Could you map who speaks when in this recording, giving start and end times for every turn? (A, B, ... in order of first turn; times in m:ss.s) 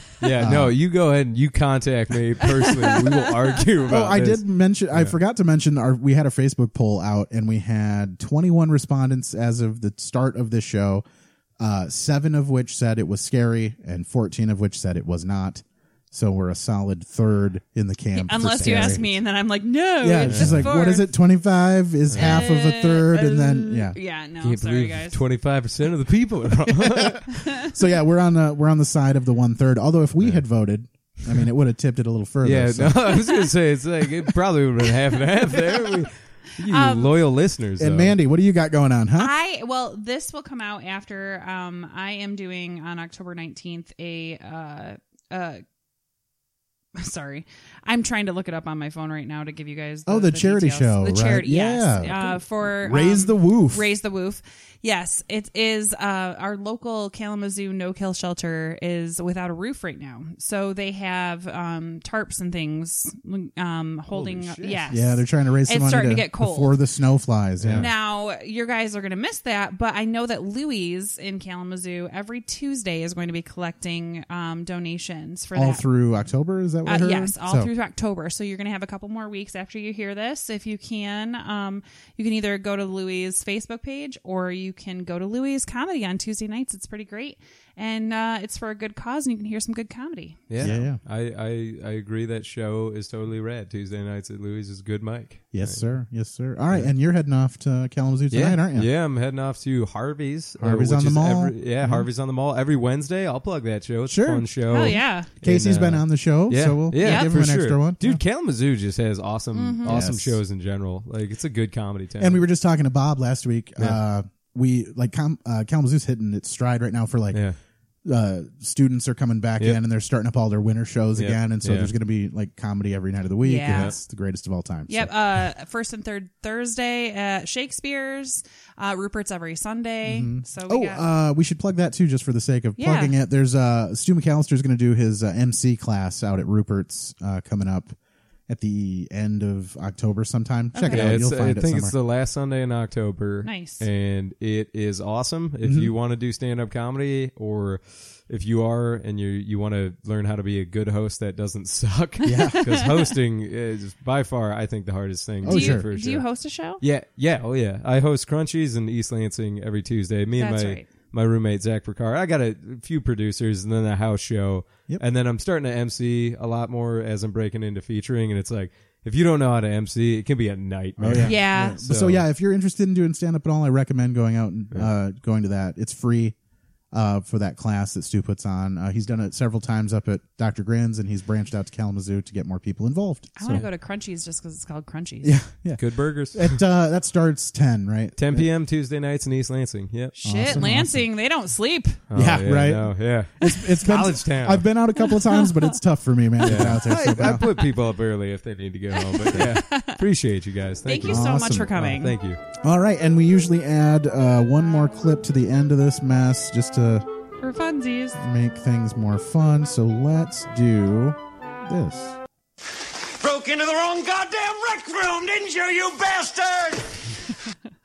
0:00.2-0:05.2 A
0:00.4-0:00.8 B
0:03.9-0:11.0 B
0:11.6-0:19.0 B
0:18.1-0:21.1 C
0:18.6-0:19.0 A
0:20.0-0:24.0 B
0:20.2-0:20.7 A
0:22.1-0:22.5 A
0:22.2-0:25.2 C
0:24.4-0:27.4 A
0:27.6-0:33.1 B
0:32.4-0:38.2 A
0:36.7-0:37.2 C
0:37.8-0:39.3 B
0:39.2-0:45.6 C
0:47.0-1:06.8 C
0:50.1-0:53.9 B
1:04.1-1:05.0 A
1:04.9-1:07.9 B
1:07.6-1:07.9 A
1:07.8-1:15.8 C
1:15.6-1:17.7 B
1:16.9-1:30.7 C
1:30.5-1:35.8 A
1:30.6-1:31.0 B
1:35.5-1:38.9 B
1:38.3-1:52.4 A
1:40.6-1:42.1 B
1:44.1-1:48.2 B
1:44.7-1:45.3 C
1:47.0-1:47.3 C
1:49.5-1:50.0 C
1:49.8-1:50.4 B
1:52.2-1:57.4 B
1:57.3-1:57.6 A
1:58.0-2:05.4 B
2:01.2-2:01.9 A
2:03.4-2:03.9 C
2:04.9-2:11.0 C
2:10.0-2:18.0 B
2:12.8-2:13.2 C
2:18.5-2:22.0 B
2:20.7-2:21.1 C
2:20.9-2:36.3 A
2:23.4-2:23.9 C
2:25.6-2:25.9 B
2:32.3-2:32.7 B
2:32.3-2:32.9 C
2:35.4-2:35.9 B
2:35.5-2:36.8 C
2:36.8-2:52.2 A
2:40.4-2:40.9 C
2:51.0-2:56.4 B
2:51.2-2:51.8 C
2:56.9-3:03.6 B
3:03.4-3:05.4 C
3:05.2-3:08.5 B
3:05.8-3:06.6 A
3:08.2-3:10.7 A
3:10.2-3:12.0 C
3:10.2-3:11.1 B
3:12.1-3:14.7 A
3:12.1-3:17.5 B
3:15.0-3:15.8 C
3:16.4-3:22.4 A
3:19.0-3:20.0 C
3:20.9-3:22.2 C
3:21.0-3:21.8 B
3:22.6-3:27.1 B
3:27.4-3:28.2 C
3:28.2-3:32.2 B
3:32.8-3:36.9 D